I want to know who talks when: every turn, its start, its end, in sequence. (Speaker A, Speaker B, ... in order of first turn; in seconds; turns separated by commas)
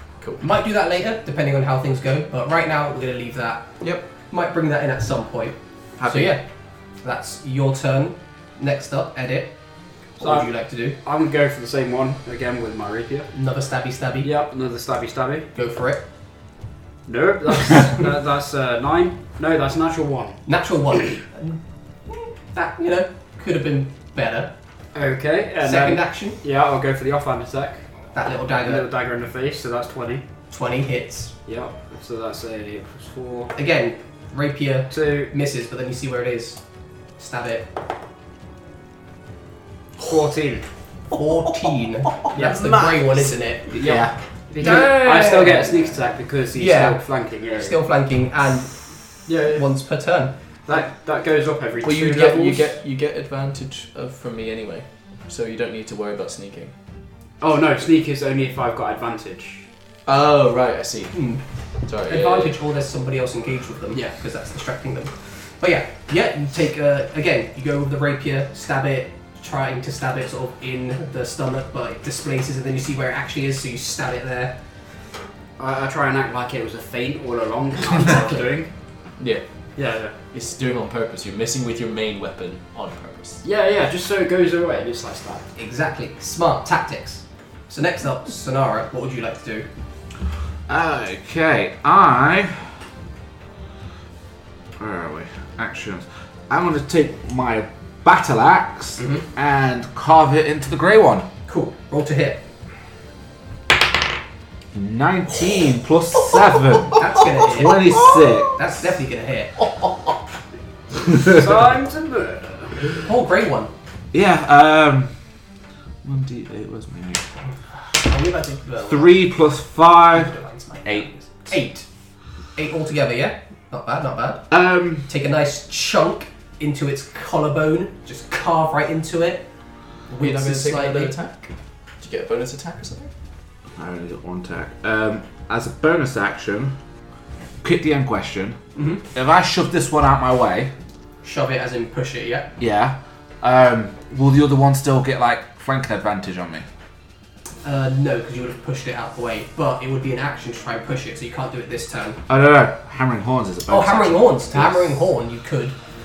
Speaker A: 0.4-3.7, Speaker A: 4.3-6.4, Speaker B: 6.0-6.4, Speaker A: 7.0-9.5, Speaker A: 10.2-11.0, Speaker C: 10.2-13.3, Speaker A: 13.3-14.3, Speaker C: 14.2-15.5, Speaker A: 15.6-16.0, Speaker C: 17.1-20.4, Speaker A: 20.5-24.5, Speaker C: 24.9-27.8, Speaker A: 25.6-26.4, Speaker A: 28.1-28.9, Speaker C: 28.6-30.2, Speaker A: 30.5-31.3, Speaker C: 31.4-33.5, Speaker A: 33.5-36.6, Speaker C: 34.9-35.3, Speaker A: 37.2-37.7, Speaker C: 40.0-40.7, Speaker A: 41.1-44.0, Speaker B: 42.4-43.3, Speaker C: 43.7-47.8, Speaker D: 43.8-44.1, Speaker A: 44.6-45.9, Speaker A: 46.5-50.3, Speaker C: 49.3-49.7, Speaker C: 50.7-52.8, Speaker B: 51.8-56.7, Speaker C: 57.4-59.7, Speaker B: 60.1-61.2, Speaker A: 61.1-61.4, Speaker B: 61.9-62.6, Speaker A: 62.0-74.5, Speaker C: 75.6-78.7, Speaker A: 78.0-78.5, Speaker B: 79.2-79.4, Speaker C: 79.8-80.1, Speaker B: 80.3-83.4, Speaker C: 83.4-85.5, Speaker A: 85.6-89.7, Speaker D: 90.7-92.7, Speaker D: 94.8-101.3, Speaker A: 99.0-99.2, Speaker A: 101.5-102.4, Speaker D: 104.7-108.6, Speaker A: 107.0-109.7, Speaker C: 111.2-112.9, Speaker A: 113.0-113.7, Speaker D: 114.1-115.1, Speaker D: 116.0-117.3, Speaker A: 117.9-119.2, Speaker D: 118.9-121.1, Speaker A: 120.2-121.9, Speaker A: 122.6-124.5, Speaker D: 124.5-125.1, Speaker A: 125.1-129.4, Speaker A: 130.1-131.2, Speaker B: 130.2-131.5, Speaker B: 132.0-133.1, Speaker D: 133.8-136.7, Speaker D: 137.6-138.6, Speaker A: 138.8-139.1, Speaker D: 139.1-140.7, Speaker A: 141.2-142.5, Speaker D: 142.6-146.7, Speaker A: 147.6-152.2, Speaker D: 152.3-154.8, Speaker A: 153.7-155.8